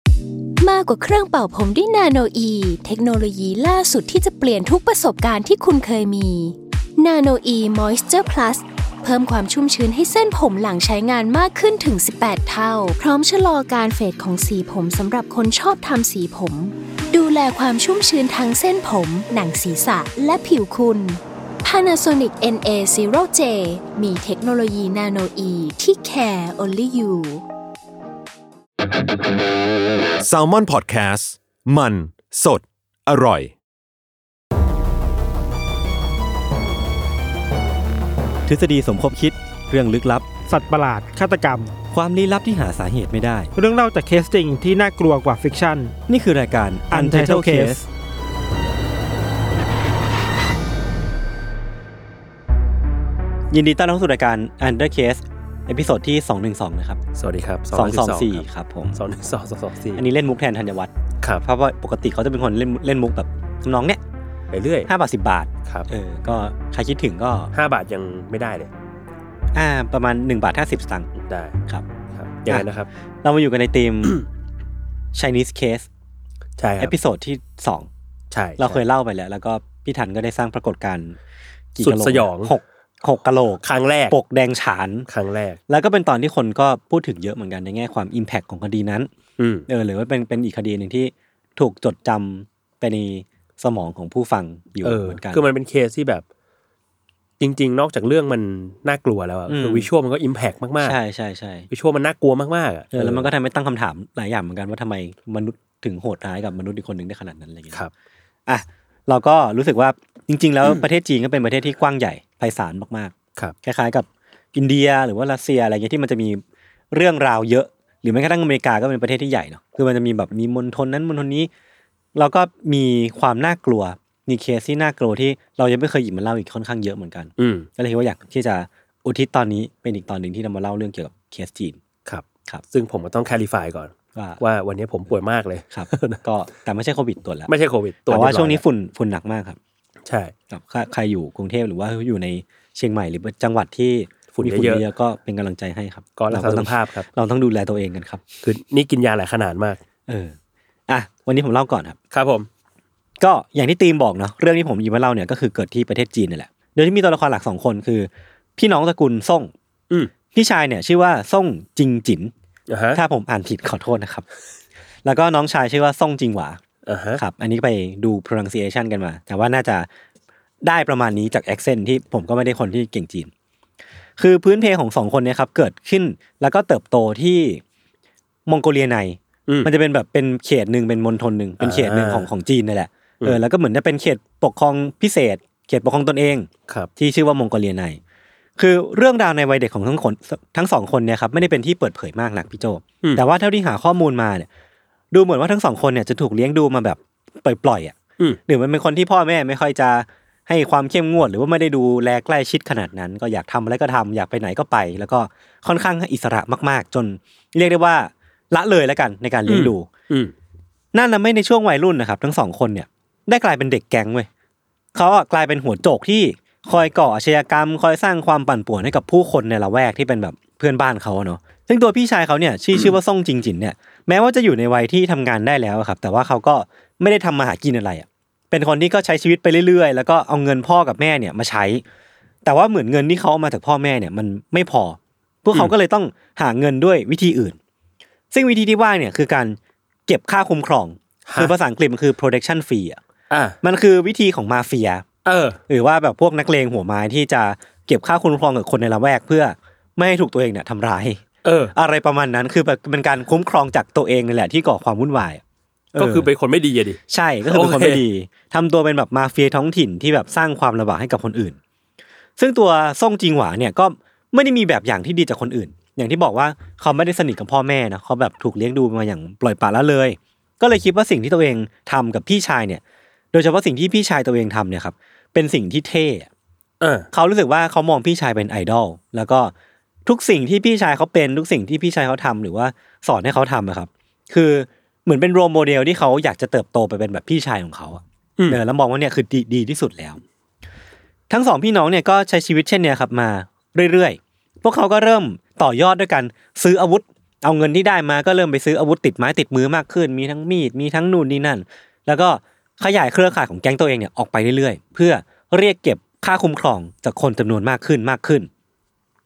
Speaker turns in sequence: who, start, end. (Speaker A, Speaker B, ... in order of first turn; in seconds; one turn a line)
Speaker A: 0.6-27.4
Speaker B: 30.2-33.5
Speaker C: 38.5-40.2
Speaker D: 40.5-41.7
Speaker C: 41.9-43.5
Speaker D: 43.5-45.9
Speaker C: 46.1-47.8
Speaker D: 46.9-47.8
Speaker C: 53.5-57.0
Speaker E: 57.1-60.0
Speaker C: 57.7-59.0
Speaker C: 59.9-60.9
Speaker C: 61.4-64.0
Speaker E: 64.5-64.9
Speaker C: 64.9-67.5
Speaker E: 67.5-68.7
Speaker C: 69.5-71.1
Speaker E: 71.1-71.6
Speaker E: 72.1-72.9
Speaker C: 73.2-74.2
Speaker C: 75.1-75.9
Speaker E: 76.6-76.9
Speaker C: 76.8-77.9
Speaker E: 78.3-78.8
Speaker C: 78.6-81.2
Speaker C: 81.7-85.1
Speaker E: 81.8-82.5
Speaker E: 83.6-84.2
Speaker E: 85.1-85.6
Speaker C: 85.7-89.1
Speaker E: 89.4-89.7
Speaker C: 89.7-95.4
Speaker E: 94.8-96.2
Speaker E: 97.4-101.0
Speaker C: 99.5-99.9
Speaker C: 100.8-101.7
Speaker E: 101.7-103.3
Speaker C: 102.9-107.8
Speaker C: 108.5-121.5
Speaker C: 122.1-131.8
Speaker E: 127.4-127.7
Speaker E: 132.1-136.2
Speaker C: 134.1-134.4
Speaker C: 135.7-137.5
Speaker E: 137.5-138.6
Speaker C: 138.1-139.6
Speaker E: 140.0-140.3
Speaker C: 140.5-148.2
Speaker E: 144.3-144.8
Speaker E: 146.2-147.1
Speaker E: 148.4-149.8
Speaker C: 150.1-150.3
Speaker C: 150.9-152.0
Speaker E: 152.1-152.5
Speaker C: 153.2-159.5
Speaker C: 160.3-162.3
Speaker E: 162.7-163.0
Speaker C: 162.9-164.2
Speaker C: 165.0-166.6
Speaker E: 166.8-167.2
Speaker C: 167.2-169.9
Speaker C: 170.6-173.3
Speaker C: 174.2-177.6
Speaker C: 178.5-188.0
Speaker E: 181.6-182.3
Speaker C: 188.6-194.5
Speaker C: 195.1-209.9
Speaker E: 209.4-210.3
Speaker C: 210.9-214.3
Speaker C: 214.9-231.8
Speaker C: 232.4-237.6
Speaker C: 238.3-243.0
Speaker E: 241.3-241.5
Speaker E: 243.3-243.6
Speaker C: 243.6-245.0
Speaker E: 245.2-245.6
Speaker C: 245.7-255.4
Speaker E: 251.4-251.7
Speaker C: 255.9-256.3
Speaker E: 255.9-258.0
Speaker C: 257.1-261.6
Speaker C: 262.4-272.8
Speaker C: 273.3-276.3
Speaker E: 276.8-277.1
Speaker C: 277.1-279.5
Speaker C: 280.1-290.2
Speaker C: 291.3-308.5